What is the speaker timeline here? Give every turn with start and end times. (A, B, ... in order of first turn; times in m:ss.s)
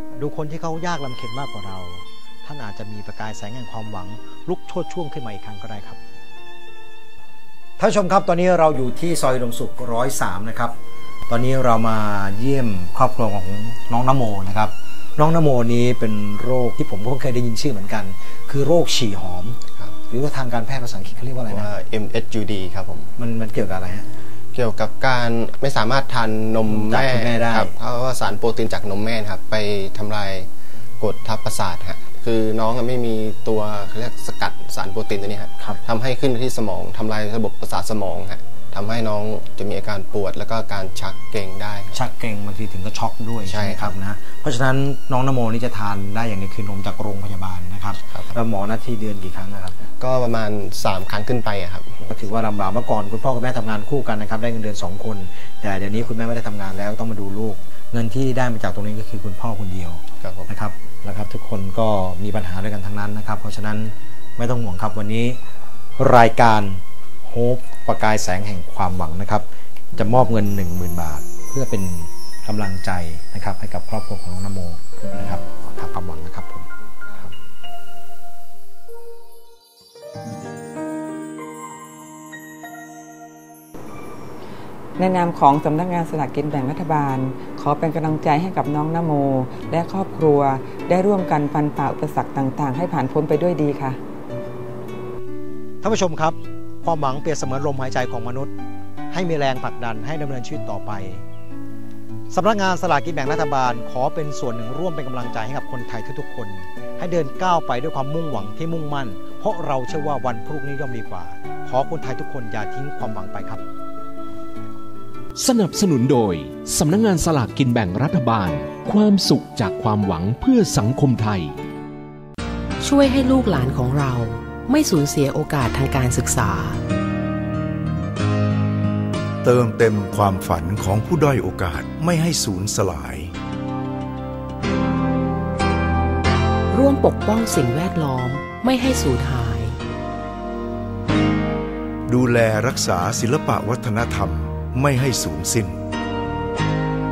0:00.2-0:06.0 A
0:07.8-0:10.8 A
0:11.3-0:21.7 A
0:21.5-0:23.1 B
0:23.2-0:24.1 A
0:24.5-0:30.5 B
0:26.6-0:27.8 A
0:31.0-0:42.0 B
0:41.9-0:49.8 A
0:43.5-0:43.9 B
0:50.0-0:52.0 B
0:52.0-1:05.4 A
1:00.2-1:00.5 B
1:06.0-1:17.3 A
1:25.0-1:34.0 C
1:35.8-1:38.5 A
1:39.1-1:41.2 A
1:42.3-1:53.6 A
1:55.4-2:01.5 D
2:02.8-2:06.8 E
2:09.4-2:13.3 F
2:16.7-2:19.8 E
2:22.1-2:25.8 F